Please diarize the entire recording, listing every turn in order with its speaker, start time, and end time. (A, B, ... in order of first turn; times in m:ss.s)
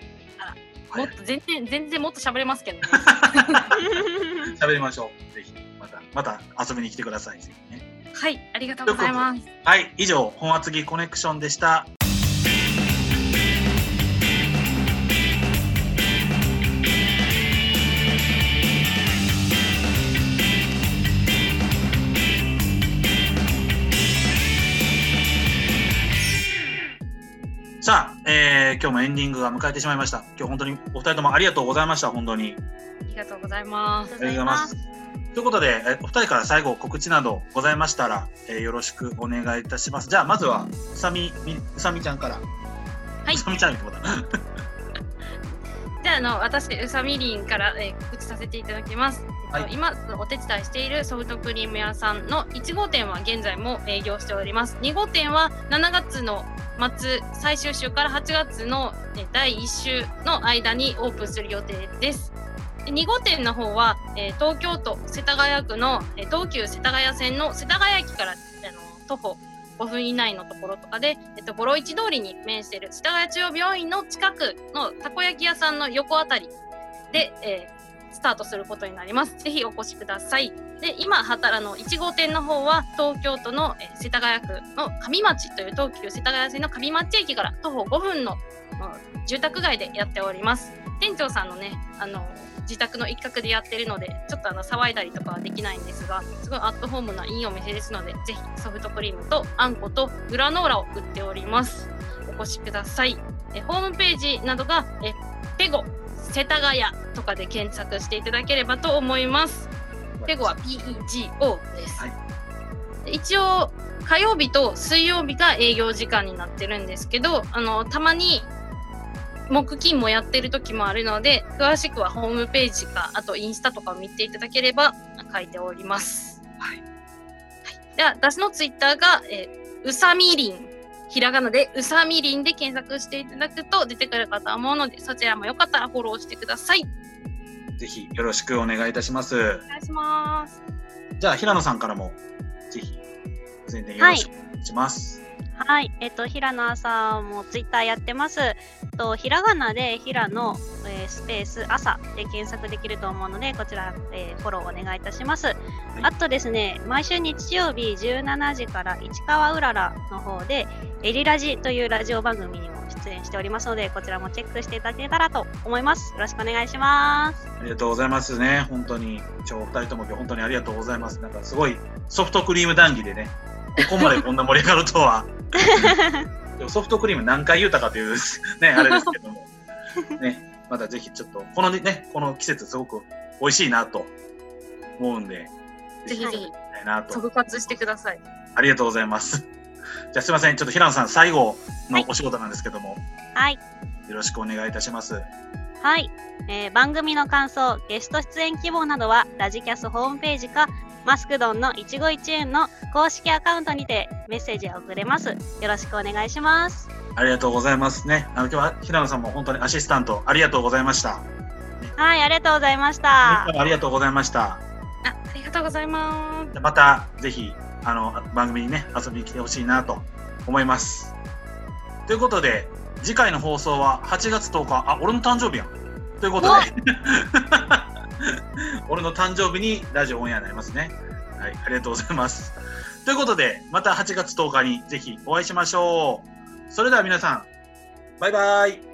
0:00.4-0:03.6 A
0:03.0-0:07.8 B
0:03.8-0:04.5 C
0:08.1-0:09.5 A
0:08.9-0:11.9 B
0:27.8-0:32.6 B
0:33.1-0:34.1 A
0:34.1-0:34.7 C
0:34.2-0:34.8 B
0:35.3-0:42.4 B
0:43.3-0:44.4 B
0:46.0-1:02.3 A
1:02.8-1:16.5 A
1:17.1-1:49.7 A
1:50.2-1:50.6 B
1:50.3-1:52.0 A
1:53.0-1:58.5 A
1:59.5-2:06.8 A
2:07.7-2:16.9 A
2:17.8-2:19.6 B
2:19.7-2:20.6 A
2:21.2-2:22.2 B
2:22.7-2:23.0 B
2:23.7-2:25.2 B
2:24.0-2:24.3 C
2:25.6-2:47.4 C
2:47.6-2:56.0 B
2:54.0-2:54.2 A
2:55.6-2:56.3 C
2:56.6-2:59.5 B
2:58.8-2:59.2 A
3:00.2-3:04.1 B
3:05.0-3:05.5 B
3:06.0-3:07.8 B
3:06.1-3:06.5 A
3:06.2-3:06.4 C
3:07.1-3:08.2 A
3:08.6-3:09.5 B
3:10.1-3:13.0 B
3:13.4-3:13.6 C
3:14.1-3:15.3 B
3:15.8-3:26.9 C
3:27.2-3:31.3 B
3:32.0-3:33.5 C
3:33.2-3:34.6 B
3:35.0-3:36.5 A
3:36.5-3:41.1 B
3:42.1-3:47.9 B
3:46.4-3:46.7 A
3:48.9-3:57.5 B
3:58.2-3:58.8 B